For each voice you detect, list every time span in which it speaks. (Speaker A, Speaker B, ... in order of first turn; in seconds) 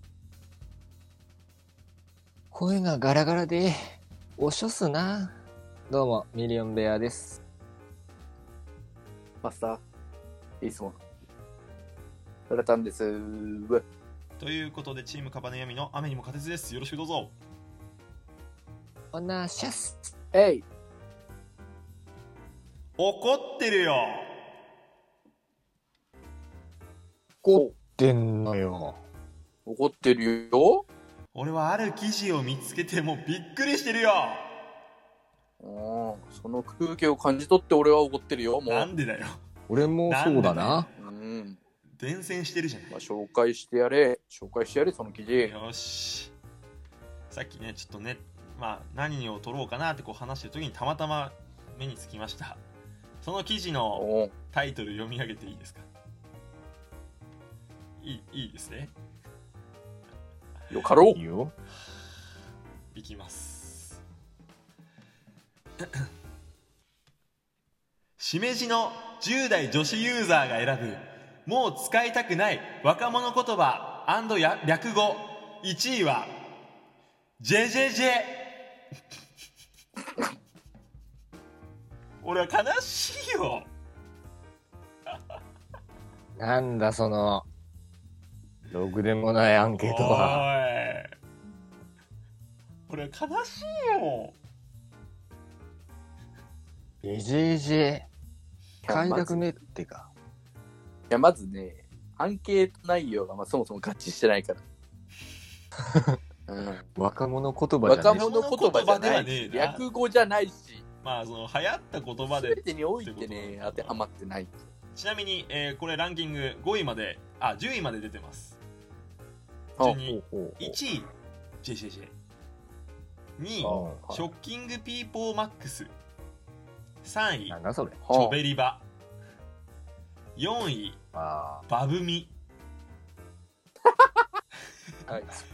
Speaker A: 2.5-7.4, 19.1-20.1, 27.4-29.0, 39.7-40.9, 61.1-61.5, 86.3-87.4, 88.7-90.5, 97.0-98.1, 98.8-100.1, 107.0-108.2, 120.0-120.8, 123.6-124.0, 127.5-128.0, 131.1-131.7
Speaker B: 9.4-9.8, 10.6-11.0, 12.5-13.8, 20.3-20.6, 29.6-30.8, 35.6-38.9, 41.0-41.6, 42.9-45.5, 53.9-54.3, 60.7-61.2, 98.8-99.5, 101.1-104.6, 106.5-106.8, 107.8-110.8, 112.3-114.6, 123.6-124.3, 128.0-128.4
Speaker C: 14.4-17.4, 23.0-24.3, 31.3-34.5, 38.6-39.4, 40.0-40.9, 41.9-43.0, 45.4-46.3, 47.3-52.6, 53.2-55.9, 58.0-59.0, 62.9-64.0, 68.2-76.3, 77.4-78.4, 82.2-83.7, 89.8-91.1, 92.9-94.4, 108.1-109.8, 111.0-114.0, 114.9-118.6, 119.8-121.1, 121.6-122.1, 123.4-125.9, 127.0-127.6, 128.1-128.8, 130.3-131.0, 131.7-132.3